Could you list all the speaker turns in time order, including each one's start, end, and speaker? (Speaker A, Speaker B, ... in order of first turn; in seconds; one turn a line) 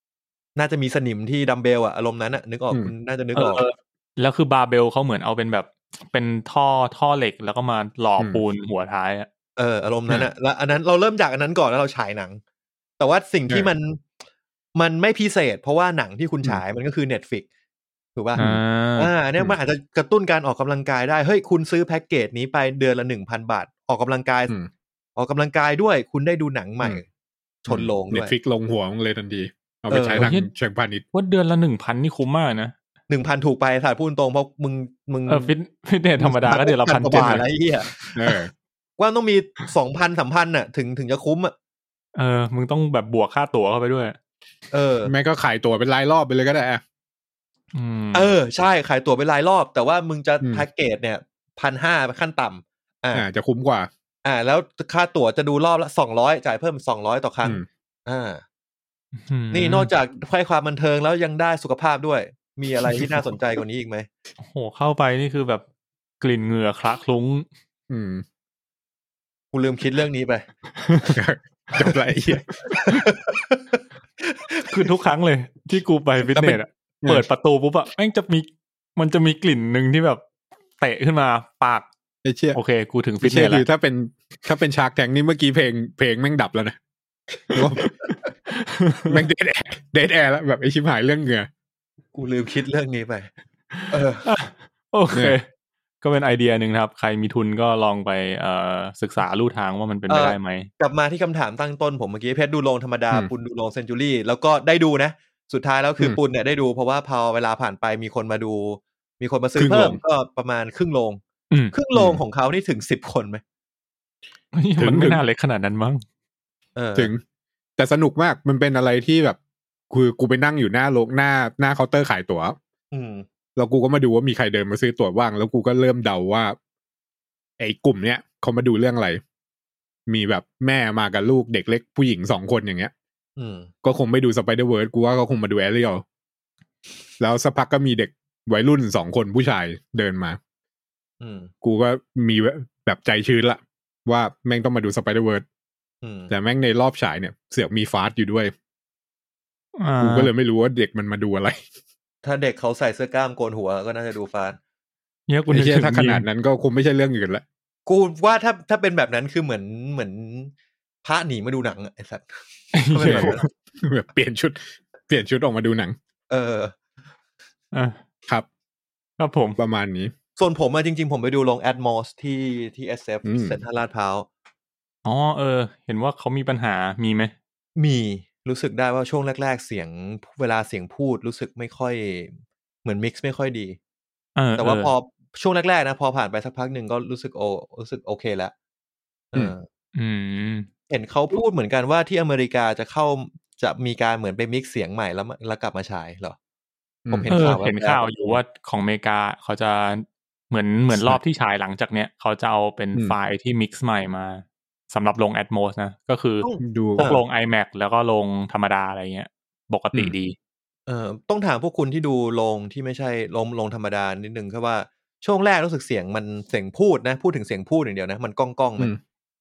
Speaker A: 0.6-3.6
Speaker B: 3.3-9.3
Speaker A: 9.6-12.4
Speaker A: 13.0-14.0
Speaker A: 14.8-17.4
Speaker A: 18.1-18.4
Speaker B: 18.4-19.1
Speaker A: 19.0-24.5
Speaker A: 25.1-27.0
Speaker A: 27.6-28.3
Speaker C: 27.7-31.0
Speaker A: 29.9-30.3
Speaker B: 30.2-30.5
Speaker B: 31.1-32.7
Speaker A: 33.1-35.5
Speaker B: 35.3-38.1
Speaker A: 36.2-38.0
Speaker C: 37.1-37.4
Speaker C: 38.1-38.5
Speaker A: 39.0-41.5
Speaker B: 42.1-44.1
Speaker A: 44.7-45.1
Speaker C: 45.0-46.8
Speaker B: 47.7-48.3
Speaker A: 48.1-53.2
Speaker C: 53.1-53.9
Speaker A: 54.2-58.4
Speaker B: 59.2-59.9
Speaker A: 59.5-64.1
Speaker B: 64.4-65.6
Speaker B: 66.2-67.5
Speaker C: 67.9-68.2
Speaker A: 69.5-70.4
Speaker B: 70.8-71.1
Speaker C: 71.1-72.6
Speaker A: 72.7-74.9
Speaker B: 74.7-80.2
Speaker C: 76.4-77.2
Speaker B: 80.8-81.9
Speaker C: 82.2-82.6
Speaker B: 82.5-83.6
Speaker C: 83.2-86.8
Speaker C: 87.5-87.9
Speaker B: 87.5-87.9
Speaker B: 88.5-89.2
Speaker C: 89.1-91.5
Speaker A: 92.1-93.3
Speaker B: 93.7-95.5
Speaker A: 93.9-94.3
Speaker B: 96.0-100.7
Speaker A: 100.1-113.4
Speaker C: 109.6-110.0
Speaker C: 111.9-112.2
Speaker B: 114.5-116.0
Speaker C: 114.8-115.2
Speaker A: 116.8-117.1
Speaker C: 117.0-117.2
Speaker C: 117.8-119.4
Speaker C: 119.9-122.5
Speaker A: 122.9-123.2
Speaker C: 123.5-126.5
Speaker C: 127.6-129.2
Speaker C: 130.1-132.9
Speaker A: 133.4-133.7
Speaker C: 133.8-136.0
Speaker C: 137.2-140.4
Speaker A: 141.2-141.5
Speaker C: 141.6-145.4
Speaker A: 146.0-146.3
Speaker C: 146.3-148.5
Speaker B: 149.8-150.3
Speaker C: 150.0-151.6
Speaker A: 152.2-154.6
Speaker B: 155.3-156.2
Speaker C: 155.5-157.4
Speaker A: 157.8-160.5
Speaker A: 161.0-163.4
Speaker B: 162.7-163.4
Speaker C: 163.0-165.9
Speaker A: 166.3-166.7
Speaker B: 167.7-168.0
Speaker B: 169.2-169.6
Speaker C: 169.6-170.1
Speaker A: 170.4-174.3
Speaker C: 173.2-173.6
Speaker B: 175.0-177.3
Speaker A: 177.8-183.8
Speaker B: 184.3-184.9
Speaker A: 184.6-188.5
Speaker A: 189.3-189.7
Speaker B: 189.9-190.7
Speaker A: 190.9-196.3
Speaker C: 197.1-197.3
Speaker A: 197.1-198.4
Speaker B: 197.3-210.3
Speaker C: 200.9-201.2
Speaker A: 206.4-207.2
Speaker C: 206.6-207.1
Speaker A: 210.9-218.9